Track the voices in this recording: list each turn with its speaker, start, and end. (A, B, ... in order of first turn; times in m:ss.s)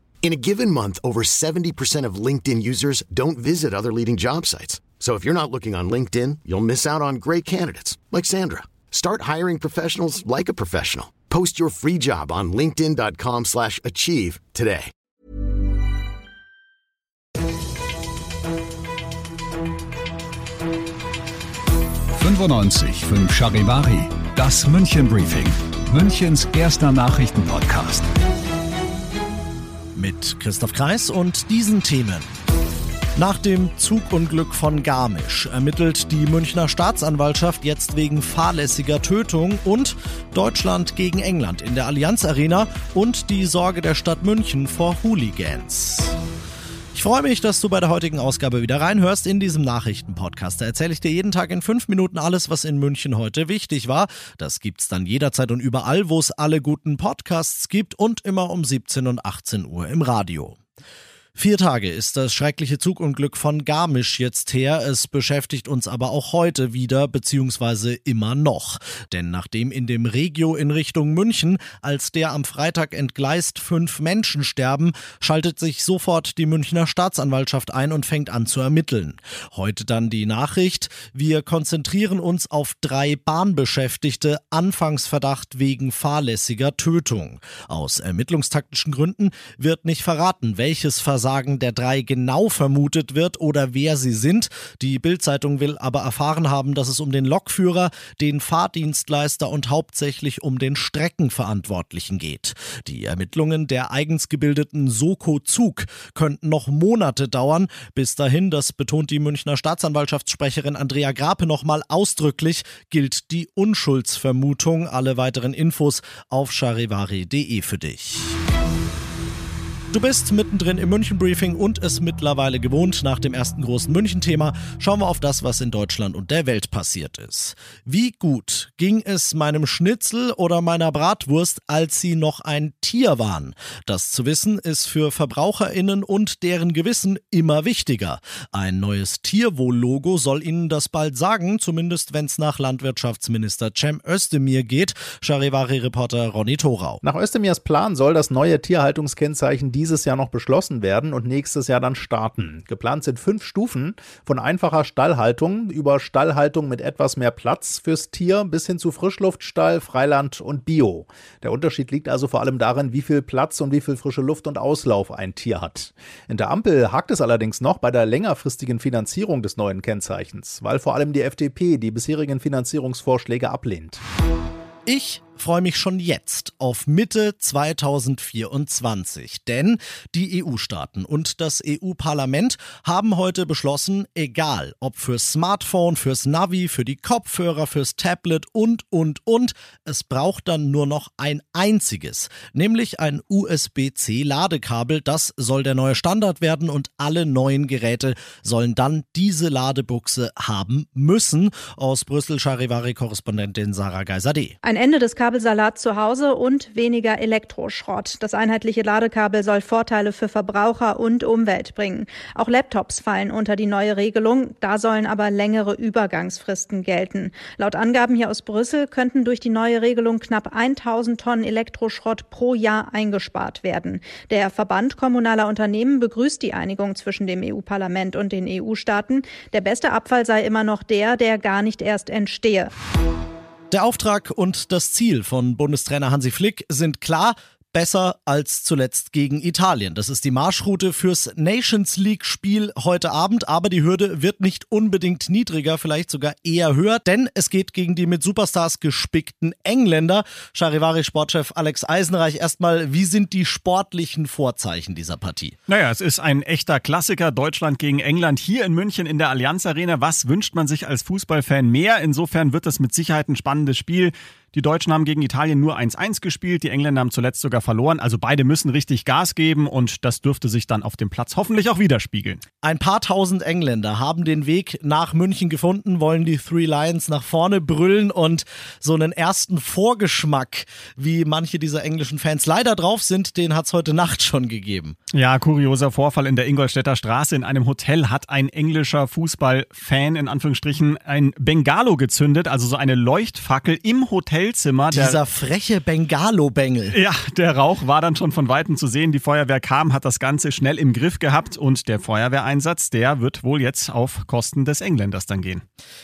0:00.2-0:14.9 A
0:22.2-0:28.0 B
0:29.9-0:32.3 C
0:33.2-0:46.2 C
0:46.9-1:00.6 C
1:01.4-1:58.4 C
1:59.9-2:27.0 C
2:27.0-2:54.0 D
2:54.8-3:24.5 C
3:24.6-3:52.7 E
3:53.7-4:15.6 C
4:15.7-4:32.4 F
4:32.6-4:45.0 C
4:45.1-4:55.2 F
4:54.9-4:57.0 C
4:56.9-5:05.6 F